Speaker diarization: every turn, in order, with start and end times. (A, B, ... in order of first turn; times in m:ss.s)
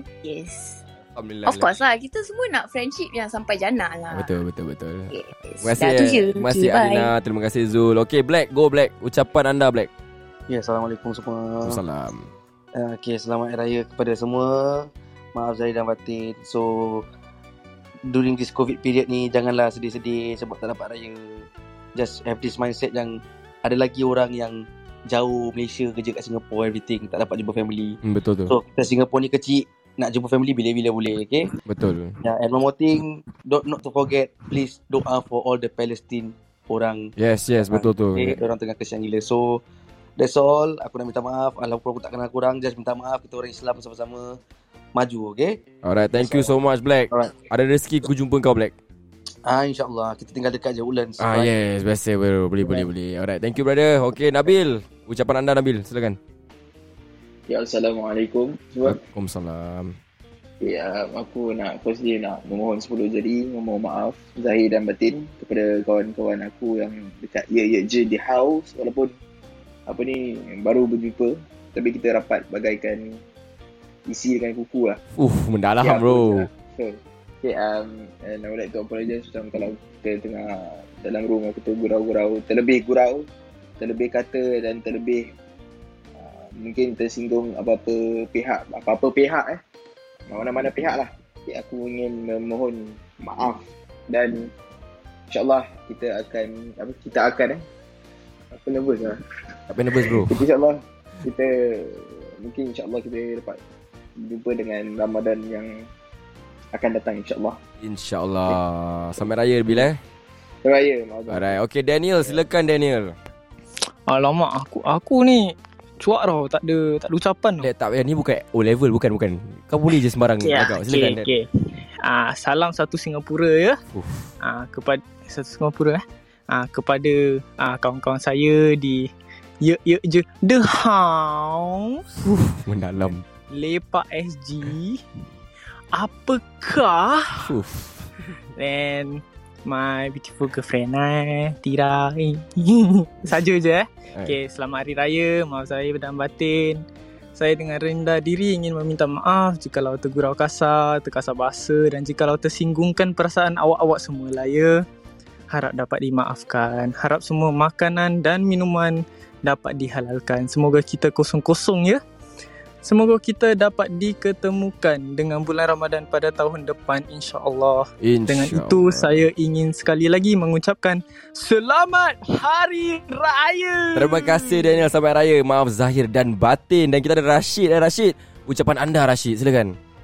0:00.2-0:00.8 A
0:01.2-0:01.7 B
0:01.4-0:04.3 A
0:04.1-0:09.9 B
0:05.1-0:07.1 A
0:10.5-0:11.8 C
0:11.6-0:12.3 B
0:12.7-0:17.0 C
0:18.1-0:31.5 C
0:28.0-0:28.5 B
0:31.6-0:32.2 B
0:32.2-0:37.1 C
0:37.2-0:38.4 B
0:37.7-0:39.6 C
0:40.2-0:44.3 C
0:45.0-0:45.6 C
0:45.8-0:48.7 B
0:46.2-0:46.5 C
0:47.1-0:47.4 C
0:49.4-0:51.5 C
0:51.2-0:56.2 B
0:57.5-0:59.0 D
0:58.8-0:59.9 B
1:00.6-1:09.1 D
1:09.9-1:13.2 D
1:14.1-1:15.0 D
1:15.2-1:16.5 B
1:15.8-1:23.2 D
1:23.8-1:25.3 D
1:26.2-1:29.6 D
1:30.3-1:34.5 D
1:35.3-1:37.6 D
1:38.5-1:39.2 D
1:39.7-1:40.4 B
1:40.1-1:43.6 D
1:44.2-1:45.8 D
1:46.7-1:47.6 D
1:47.8-1:50.0 B
1:50.6-1:51.6 D
1:51.3-1:53.1 B
1:54.1-1:57.7 E
1:57.6-2:01.3 B
2:00.4-2:01.5 E
2:02.0-2:03.8 E
2:03.9-2:04.3 B
2:04.4-2:09.1 E
2:09.6-2:12.2 E
2:12.2-2:13.2 B
2:13.5-2:15.0 E
2:15.9-2:17.5 E
2:17.4-2:18.1 B
2:18.6-2:26.8 E
2:27.4-2:34.8 E
2:35.5-2:42.0 E
2:42.8-2:54.8 E
2:48.0-2:49.2 B
2:53.9-2:59.8 B